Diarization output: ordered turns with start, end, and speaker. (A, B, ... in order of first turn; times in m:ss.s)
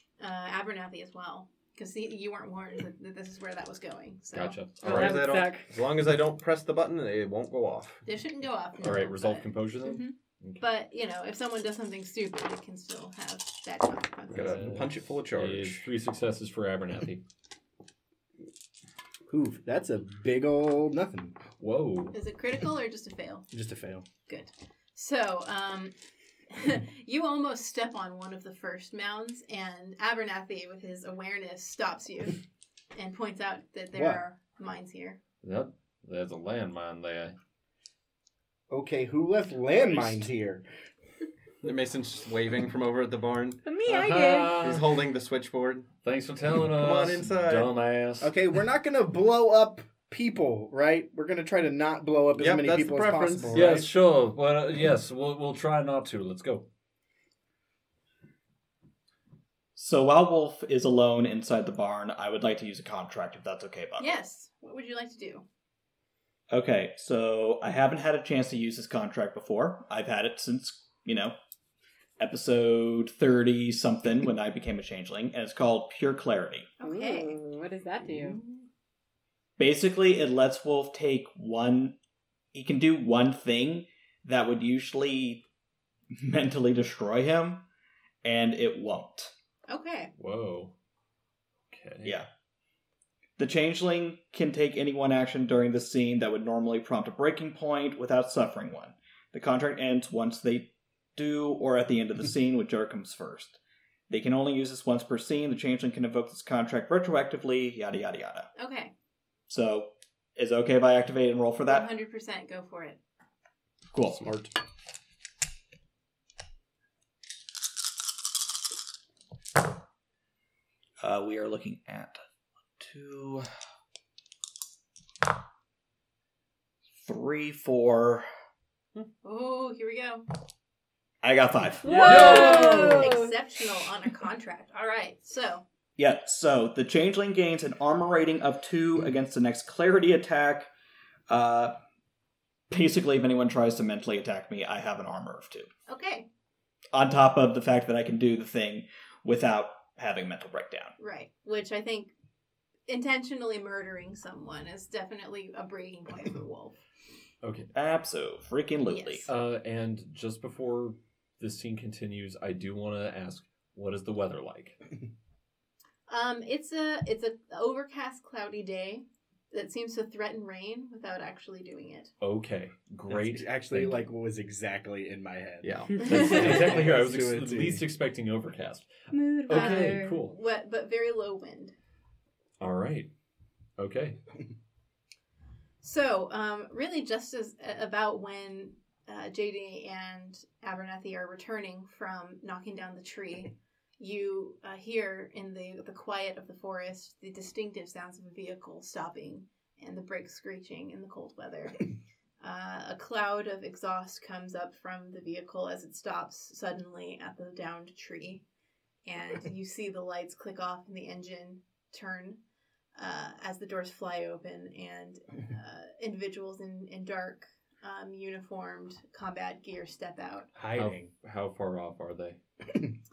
0:00.2-0:04.7 A
0:04.3-0:05.3 B
0:04.8-0:05.7 C
0:04.8-0:08.0 D
0:08.1-0:14.8 A
0:08.8-0:10.6 B
0:14.3-0:15.9 D
0:14.3-0:17.2 B
0:19.3-0:21.4 E
0:21.6-0:22.2 B
0:22.1-0:23.5 A
0:23.5-0:24.0 E
0:24.3-0:25.9 A
0:26.5-0:32.4 A
0:33.0-0:35.2 A
0:33.9-0:34.2 E
0:35.4-0:37.4 B
0:38.7-0:40.6 E
0:41.6-0:43.6 D
0:43.6-0:44.6 C
0:43.9-0:45.0 B
0:44.6-0:45.9 D
0:46.0-0:48.3 B
0:46.7-0:47.7 D
0:48.2-0:53.8 E
0:52.4-0:53.9 D
0:53.5-0:56.7 B
0:59.8-1:04.1 F
1:04.0-1:05.4 A
1:06.5-1:11.4 F
1:12.2-1:16.7 F
1:16.8-1:17.4 A
1:16.8-1:18.4 C
1:19.6-1:22.0 F
1:22.5-1:25.4 F
1:26.1-1:27.6 F
1:28.2-1:29.3 F
1:29.7-1:30.1 A
1:30.2-1:30.7 B
1:31.7-1:32.2 B
1:33.4-1:43.6 F
1:44.1-1:48.5 F
1:48.6-1:48.9 A
1:49.5-1:51.9 F
1:51.6-1:53.0 A
1:53.9-1:54.2 F
1:54.1-1:54.5 D
2:01.0-2:02.2 F
2:02.8-2:03.5 F
2:07.0-2:08.3 F
2:09.2-2:10.2 A
2:11.2-2:12.9 F
2:11.8-2:13.3 C
2:11.9-2:15.6 A
2:11.9-2:13.0 B
2:16.0-2:20.7 F
2:21.3-2:21.8 F
2:22.7-2:25.7 F
2:25.9-2:26.3 A
2:26.9-2:31.0 F
2:31.0-2:32.1 A
2:32.9-2:36.8 A
2:37.4-2:37.7 B
2:37.7-2:39.3 F
2:38.9-2:39.3 A
2:39.3-2:44.8 B
2:46.1-2:52.1 A
2:52.2-2:54.1 B
2:53.1-2:57.9 E
2:55.6-2:56.6 D
2:56.0-3:00.4 B
2:59.1-3:00.2 C
2:59.5-3:01.7 A
3:02.6-3:03.1 B
3:03.8-3:04.2 B
3:05.8-3:21.9 A
3:22.4-3:28.4 A
3:29.1-3:32.4 A
3:33.0-3:40.5 A
3:40.6-3:41.1 E
3:40.7-3:42.4 B